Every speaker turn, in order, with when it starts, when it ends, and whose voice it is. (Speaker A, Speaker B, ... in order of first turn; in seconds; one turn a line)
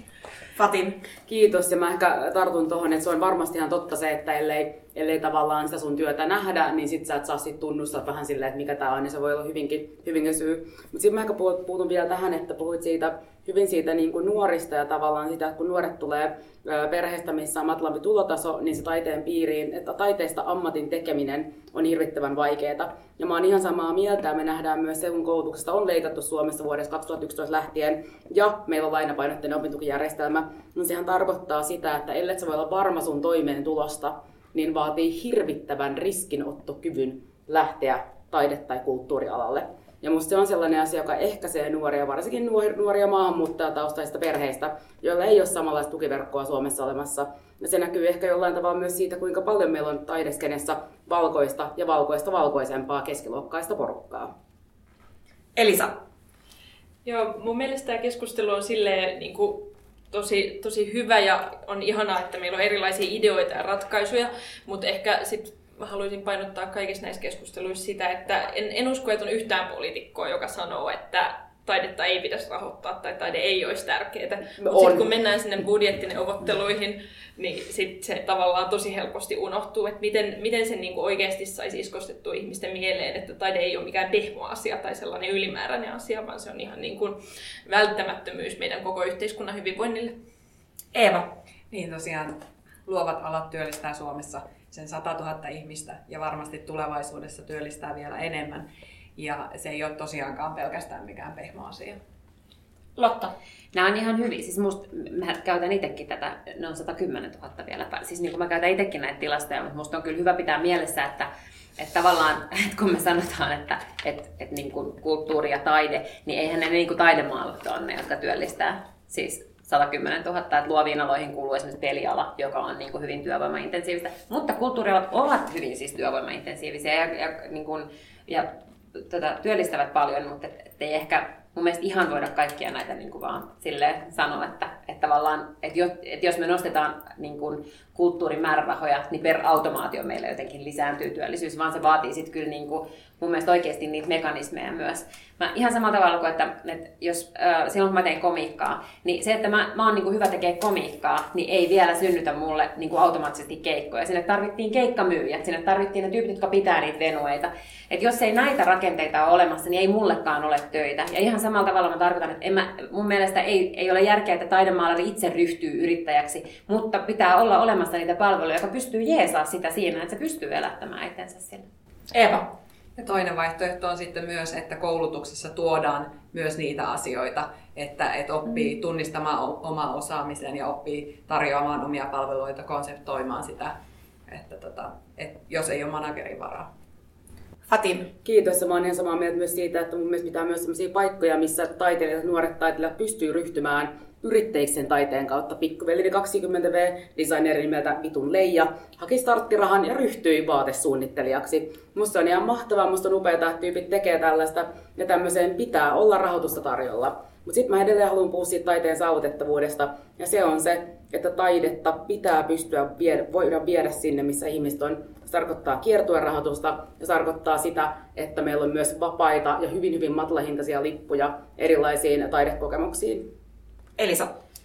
Speaker A: 0.5-1.0
Speaker B: 1.3-54.3
Speaker A: 55.5-56.0
Speaker C: 57.0-90.2
Speaker B: 74.6-75.0
Speaker A: 90.9-91.3
Speaker D: 91.7-102.0
Speaker A: 103.0-103.3
Speaker E: 103.7-171.7
Speaker A: 172.1-172.5
Speaker D: 172.9-183.7
Speaker D: 184.3-186.7
Speaker A: 187.7-188.1
Speaker B: 188.2-223.2
Speaker A: 224.0-224.3